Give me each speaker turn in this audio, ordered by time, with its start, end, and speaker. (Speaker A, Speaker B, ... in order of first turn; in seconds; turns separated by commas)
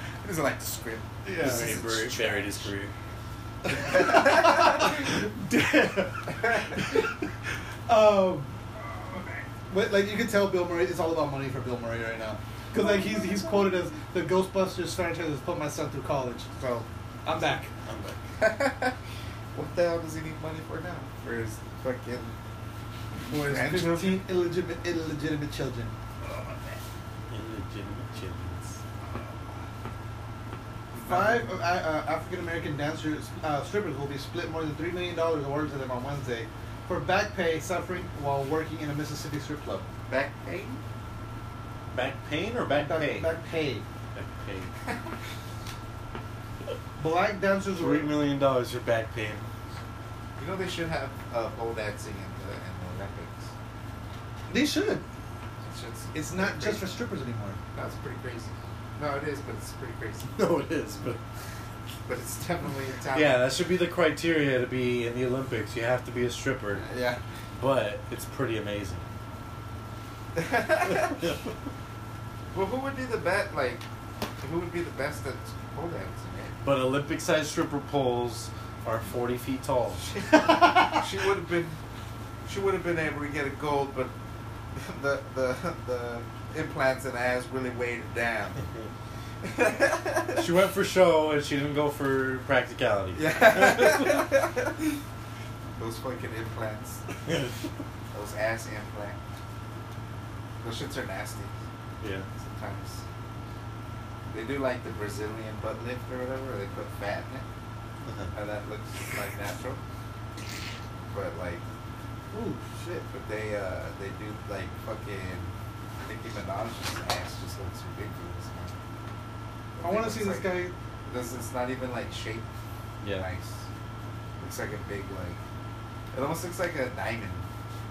Speaker A: 0.2-2.7, Speaker B: 1.2-1.8, Speaker C: 1.4-2.9, Speaker B: 3.7-7.1, Speaker A: 3.7-4.8, Speaker B: 7.9-8.5, Speaker A: 9.1-9.4, Speaker B: 9.7-16.5, Speaker A: 12.8-13.5, Speaker A: 16.6-16.9, Speaker B: 17.2-17.7, Speaker C: 17.3-18.2, Speaker A: 18.4-19.0, Speaker A: 19.5-22.3, Speaker B: 23.2-25.9, Speaker A: 23.3-24.2, Speaker A: 26.2-26.8, Speaker C: 27.3-28.8, Speaker A: 30.9-31.5, Speaker B: 31.1-39.9, Speaker A: 40.1-40.8, Speaker C: 41.9-43.3, Speaker B: 42.7-43.8, Speaker C: 44.1-44.7, Speaker B: 47.0-48.1, Speaker C: 47.7-49.5, Speaker A: 50.4-53.5, Speaker B: 54.5-55.0, Speaker A: 55.6-56.9, Speaker B: 56.1-57.6, Speaker A: 57.7-60.4, Speaker C: 60.4-61.2, Speaker A: 62.1-63.5, Speaker C: 63.1-66.8, Speaker A: 66.8-67.2, Speaker C: 67.5-69.1, Speaker A: 70.3-71.2, Speaker A: 72.5-73.8, Speaker A: 74.4-76.5, Speaker C: 76.6-80.1, Speaker A: 80.0-81.8, Speaker B: 80.5-81.0, Speaker A: 82.5-84.1, Speaker A: 84.8-88.6, Speaker A: 89.4-90.5, Speaker C: 90.3-94.2, Speaker A: 93.1-95.0, Speaker A: 95.8-97.0, Speaker C: 97.3-97.5, Speaker A: 98.1-99.2, Speaker A: 100.6-101.5, Speaker C: 102.0-102.3, Speaker A: 102.4-103.0, Speaker A: 104.3-107.5, Speaker C: 108.0-108.3, Speaker A: 108.3-109.8, Speaker A: 111.1-111.6, Speaker B: 112.3-113.1, Speaker A: 113.1-118.8, Speaker A: 119.8-122.5, Speaker B: 119.8-120.7, Speaker C: 123.0-123.3, Speaker A: 123.1-123.7, Speaker A: 124.4-125.4, Speaker A: 126.1-127.5